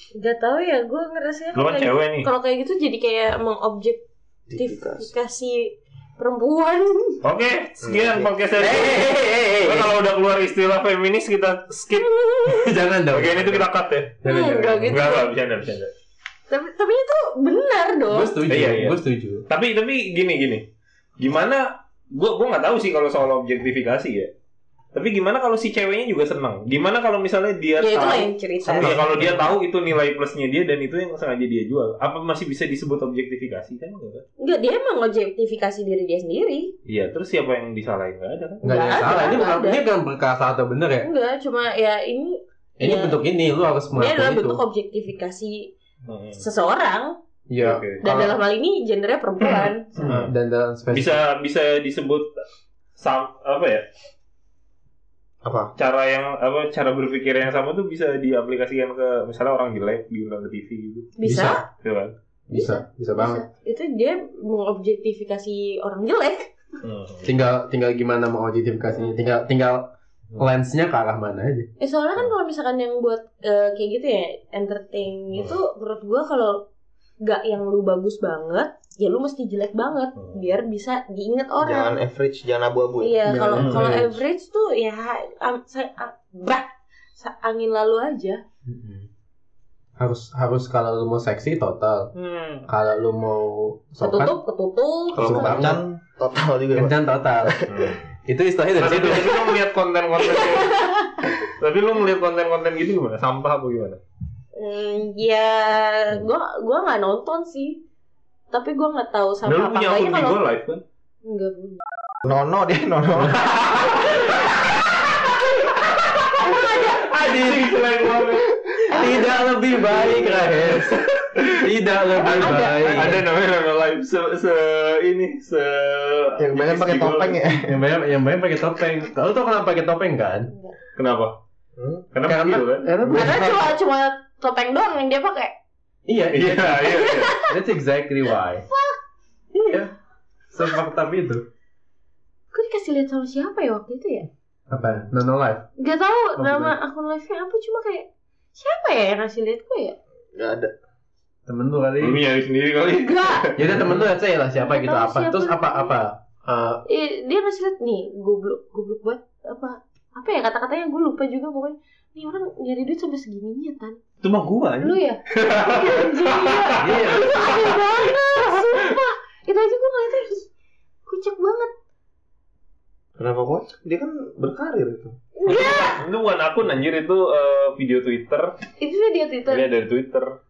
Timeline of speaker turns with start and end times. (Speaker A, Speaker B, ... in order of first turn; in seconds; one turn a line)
Speaker A: 0.2-7.2
Speaker B: 1.6-2.3
Speaker C: 4.5-5.1
Speaker B: 7.2-12.1
Speaker C: 7.8-8.3
Speaker D: 8.6-9.9
Speaker A: 12.0-12.8
Speaker D: 12.5-13.7
Speaker B: 13.1-14.2
Speaker D: 14.2-15.1
Speaker A: 14.2-15.3
Speaker B: 14.8-15.9
Speaker A: 16.5-18.4
Speaker D: 18.1-19.5
Speaker B: 18.5-20.7
Speaker B: 21.2-24.3
Speaker B: 24.9-34.2
Speaker A: 27.8-29.0
Speaker D: 28.8-29.5
Speaker A: 34.4-36.7
Speaker B: 36.9-39.3
Speaker D: 38.6-41.1
Speaker A: 38.6-39.9
Speaker A: 41.0-43.2
Speaker D: 42.8-44.6
Speaker A: 43.9-45.7
Speaker B: 46.1-46.5
Speaker A: 46.4-47.2
Speaker D: 47.5-48.4
Speaker B: 47.6-48.0
Speaker A: 48.0-50.0
Speaker B: 49.4-50.3
Speaker D: 50.0-51.2
Speaker B: 50.9-52.4
Speaker B: 53.0-53.9
Speaker C: 55.4-55.7
Speaker B: 55.8-61.2
Speaker A: 61.2-61.6
Speaker D: 61.2-61.6
Speaker B: 61.8-62.1
Speaker D: 62.5-63.5
Speaker A: 62.5-66.5
Speaker B: 66.8-67.3
Speaker D: 67.2-71.7
Speaker A: 71.8-76.7
Speaker B: 75.3-75.6
Speaker A: 77.2-82.0
Speaker B: 80.2-80.5
Speaker C: 81.6-83.2
Speaker A: 83.0-88.4
Speaker D: 83.3-84.2
Speaker B: 83.5-84.0
Speaker D: 88.7-89.1
Speaker D: 90.0-92.1
Speaker B: 92.2-92.6
Speaker D: 92.7-94.3
Speaker A: 94.0-95.7
Speaker D: 95.1-95.8
Speaker C: 95.2-97.9
Speaker D: 96.8-97.6
Speaker B: 97.7-98.0
Speaker D: 98.3-99.3
Speaker B: 98.8-104.0
Speaker A: 100.3-101.2
Speaker A: 104.5-107.8
Speaker A: 108.5-110.4
Speaker B: 109.4-110.8
Speaker A: 111.2-111.8
Speaker C: 112.2-113.4
Speaker B: 113.3-114.5
Speaker A: 114.1-114.3
Speaker A: 115.7-117.0
Speaker B: 116.5-118.5
Speaker D: 116.5-117.8
Speaker D: 118.8-121.0
Speaker A: 118.9-119.5
Speaker B: 119.8-121.7
Speaker D: 121.6-123.2
Speaker A: 122.1-123.2
Speaker B: 122.2-127.4
Speaker C: 126.4-127.8
Speaker D: 127.7-130.5
Speaker A: 130.5-130.8
Speaker B: 130.9-131.3
Speaker C: 131.8-132.1
Speaker B: 132.1-133.0
Speaker D: 132.3-133.7
Speaker A: 133.0-135.5
Speaker D: 136.1-138.7
Speaker B: 136.3-137.4
Speaker A: 136.8-137.6
Speaker A: 138.7-139.0
Speaker D: 139.5-139.9
Speaker D: 140.5-141.4
Speaker A: 142.5-144.3
Speaker D: 144.7-145.7
Speaker B: 144.7-145.1
Speaker A: 145.8-150.0
Speaker D: 146.4-146.8
Speaker C: 150.3-150.7
Speaker D: 151.5-152.2
Speaker B: 152.0-154.1
Speaker A: 153.0-153.5
Speaker D: 153.6-156.8
Speaker A: 154.6-156.0
Speaker A: 156.9-164.0
Speaker B: 164.2-168.9
Speaker A: 164.8-170.5
Speaker D: 166.8-167.4
Speaker A: 171.1-171.7
Speaker C: 173.2-175.2
Speaker A: 175.4-176.0
Speaker B: 175.5-178.5
Speaker A: 178.8-179.7
Speaker B: 179.5-180.4